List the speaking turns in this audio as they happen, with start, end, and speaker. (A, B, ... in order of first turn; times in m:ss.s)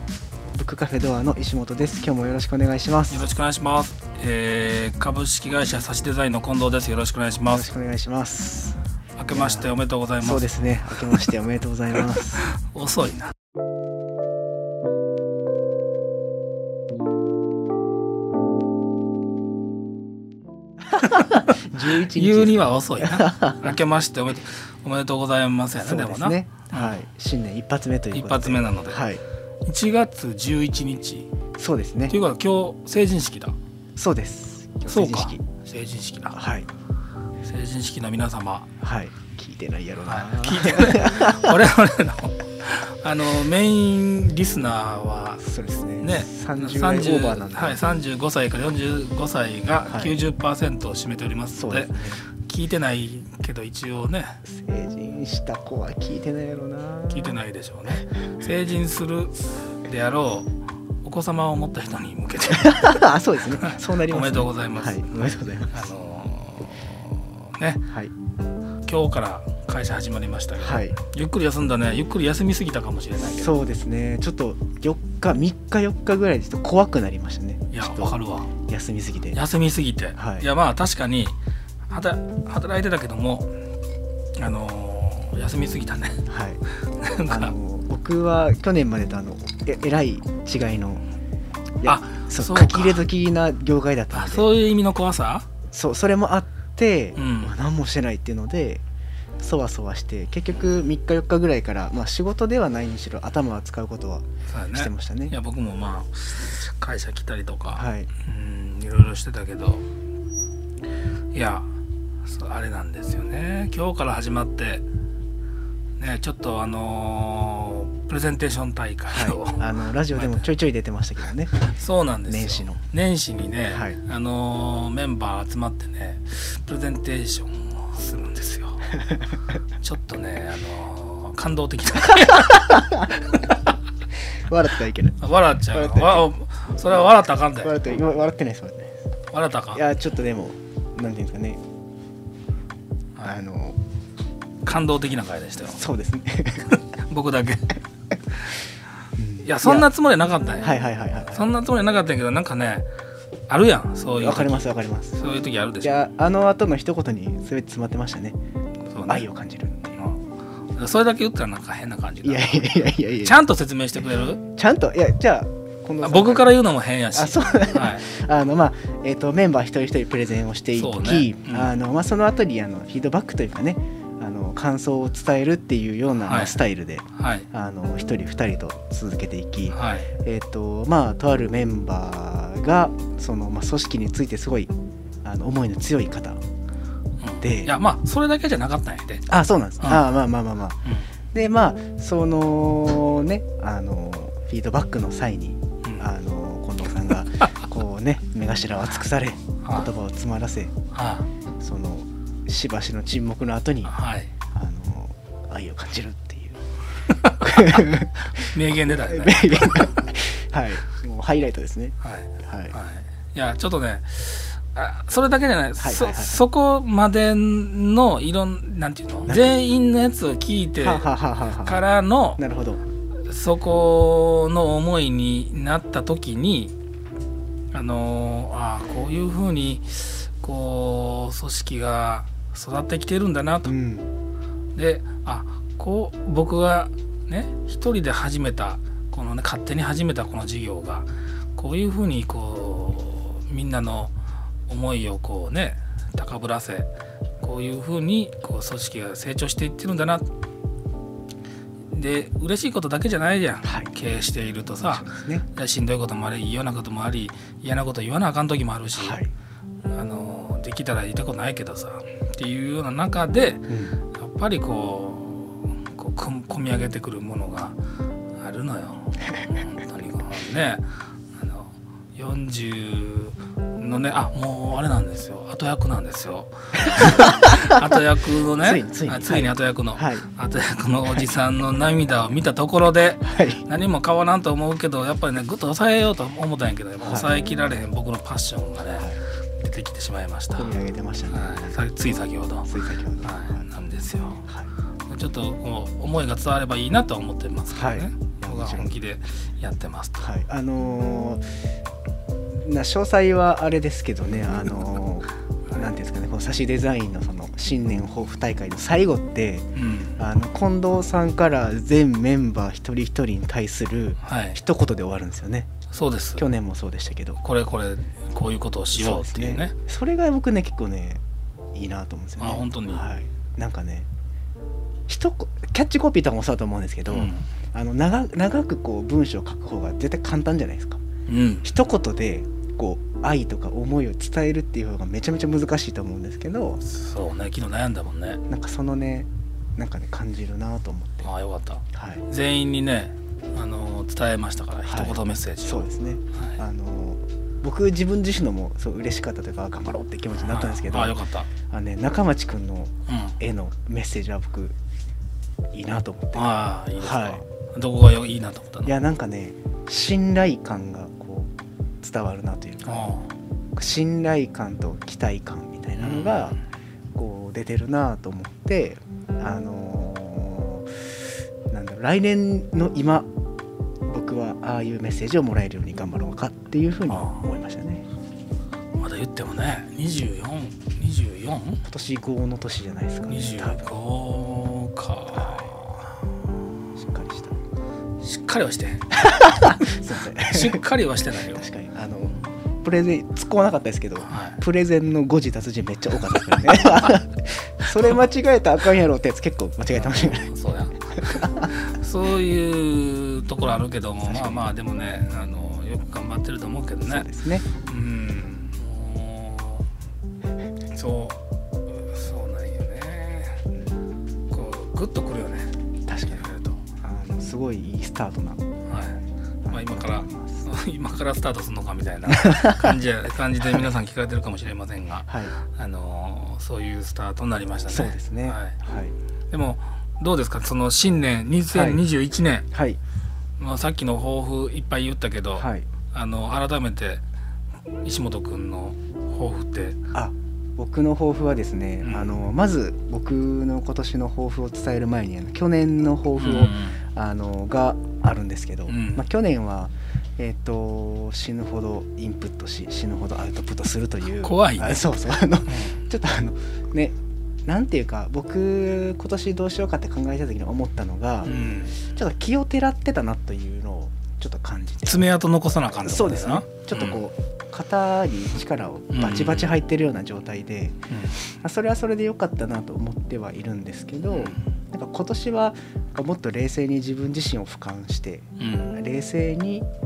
0:00.5-0:03.3 A
0:03.1-0:07.7 B
0:07.5-0:08.8 A
0:09.2-0:10.5 B
0:09.3-0:12.4 A
0:12.4-0:13.3 B
0:21.0-0:23.8 A
0:21.1-0:26.9 B
0:25.7-0:29.2 A
0:28.1-0:29.0 B
0:29.6-0:31.3 B
0:31.6-0:32.2 A
0:32.1-0:33.6 B
0:34.0-0:35.4 A
0:34.9-0:36.4 B
0:36.3-0:36.7 A
0:37.4-0:38.7 B
0:38.8-0:41.5 A
0:40.0-0:45.5 B
0:45.4-0:47.8 A
0:46.0-0:54.4 B
0:49.9-0:50.1 A
0:51.5-0:52.2 A
0:54.4-0:57.4 A
0:57.1-1:00.5 B
1:01.0-1:07.9 B
1:02.5-1:05.9 A
1:08.8-1:13.6 B
1:10.6-1:11.0 A
1:13.2-1:19.4 A
1:17.7-1:18.5 B
1:19.3-1:21.4 B
1:20.2-1:20.5 A
1:21.9-1:23.5 B
1:24.4-1:26.3 B
1:26.3-1:26.6 A
1:26.9-1:27.5 B
1:27.2-1:31.0 A
1:31.8-1:34.5 A
1:31.8-1:33.0 B
1:34.1-1:35.4 B
1:35.7-1:38.8 A
1:37.2-1:37.5 B
1:39.4-1:45.3 A
1:44.5-1:49.8 B
1:47.7-1:48.1 A
1:51.3-1:51.7 B
1:52.2-1:54.8 B
1:56.0-2:00.4 B
1:59.1-2:01.5 A
2:01.6-2:09.0 B
2:02.3-2:02.8 A
2:03.7-2:04.0 A
2:09.8-2:13.6 B
2:12.2-2:13.0 A
2:14.4-2:16.3 A
2:15.2-2:17.7 B
2:17.6-2:18.9 A
2:19.3-2:19.8 B
2:19.7-2:21.6 A
2:23.2-2:23.8 A
2:24.6-2:25.8 B
2:25.7-2:26.7 A
2:26.7-2:27.8 B
2:28.3-2:28.6 B
2:29.2-2:29.9 A
2:29.4-2:32.9 B
2:30.6-2:31.4 A
2:33.5-2:35.9 B
2:34.2-2:35.1 A
2:35.8-2:38.4 A
2:38.8-2:39.3 B
2:39.0-2:40.0 A
2:39.9-2:44.4 B
2:42.2-2:43.4 A
2:44.4-2:46.5 A
2:46.0-2:48.0 B
2:47.1-3:04.7 A
2:50.7-2:51.7 B
2:56.2-2:56.6 B
2:57.1-2:57.5 B
2:59.7-3:00.1 B
3:05.2-3:06.4 A
3:07.2-3:09.3 B
3:07.4-3:07.7 A
3:09.3-3:10.8 A
3:09.8-3:10.1 B
3:11.3-3:20.7 A
3:20.9-3:21.2 B
3:21.6-3:23.9 A
3:23.8-3:24.3 B
3:24.5-3:26.6 A
3:27.0-3:30.0 B
3:27.4-3:32.7 A
3:32.0-3:41.1 B
3:35.8-3:36.4 A
3:39.3-3:39.5 A
3:40.8-3:41.8 A
3:41.6-3:42.4 B
3:42.4-3:42.8 A
3:43.3-3:46.7 B
3:47.7-3:53.7 B
3:53.6-3:54.1 A
3:54.8-4:04.1 B
4:04.7-4:10.3 B
4:11.9-4:19.2 B
4:13.6-4:13.9 A
4:14.9-4:15.4 A
4:18.9-4:19.3 A
4:19.9-4:27.8 B
4:23.7-4:24.0 A
4:28.4-4:50.7 B
4:36.8-4:37.9 A
4:38.6-4:40.2 A
4:43.2-4:43.6 A
4:47.0-4:47.3 A
4:50.6-4:51.6 A
4:51.3-4:52.7 B
4:52.7-4:53.5 A
4:53.2-4:54.4 B
4:55.1-5:00.3 B
4:57.7-4:58.9 A
5:00.2-5:01.5 A
5:02.6-5:15.7 A
5:09.8-5:10.2 B
5:14.2-5:14.6 B
5:15.9-5:16.4 B
5:16.4-5:17.4 A
5:17.4-5:19.7 B
5:18.9-5:21.2 A
5:21.7-5:24.1 A
5:22.4-5:23.0 B
5:25.1-5:31.0 A
5:27.1-5:27.4 B
5:31.3-5:31.7 B
5:31.6-5:36.8 A
5:36.8-5:38.4 B
5:38.5-5:41.3 A
5:41.2-5:46.6 B
5:41.9-5:42.2 A
5:44.9-5:54.8 A
5:50.4-5:51.5 B
5:53.1-5:53.4 B
5:55.7-5:57.4 A
5:56.3-5:58.9 B
5:58.8-6:03.1 A
6:02.8-6:03.3 B
6:03.7-6:06.6 A
6:06.0-6:06.6 B
6:07.1-6:13.3 A
6:14.1-6:18.0 A
6:17.1-6:17.4 B
6:19.0-6:21.8 B
6:21.8-6:23.9 A
6:23.3-6:26.2 B
6:25.3-6:25.7 A
6:27.0-6:27.6 A
6:28.2-6:31.6 B
6:29.1-6:40.5 A
6:34.2-6:34.6 B
6:36.6-6:37.2 B
6:40.0-6:49.9 B
6:41.2-6:41.7 A
6:44.2-6:44.6 A
6:47.0-6:47.6 A
6:50.9-6:53.6 B
6:54.5-6:55.7 B
6:56.1-6:56.5 A
6:56.2-6:56.8 B
6:57.0-6:58.6 A
6:58.9-7:08.8 B
6:59.6-7:00.6 A
7:02.3-7:02.9 A
7:05.3-7:05.5 A
7:07.9-7:09.1 A
7:09.5-7:12.7 B
7:11.7-7:12.0 A
7:12.7-7:13.0 A
7:13.6-7:17.2 B
7:15.6-7:15.9 A
7:18.0-7:20.0 B
7:20.1-7:45.2 A
7:22.0-7:22.4 B
7:26.4-7:27.0 B
7:28.9-7:29.2 B
7:34.4-7:35.1 B
7:35.7-7:36.0 B
7:41.4-7:42.0 B
7:45.0-7:47.2 B
7:46.0-7:51.0 A
7:49.1-7:49.7 B
7:51.1-7:51.5 B
7:51.6-7:59.9 A
7:54.3-7:54.6 B
7:58.6-7:59.0 B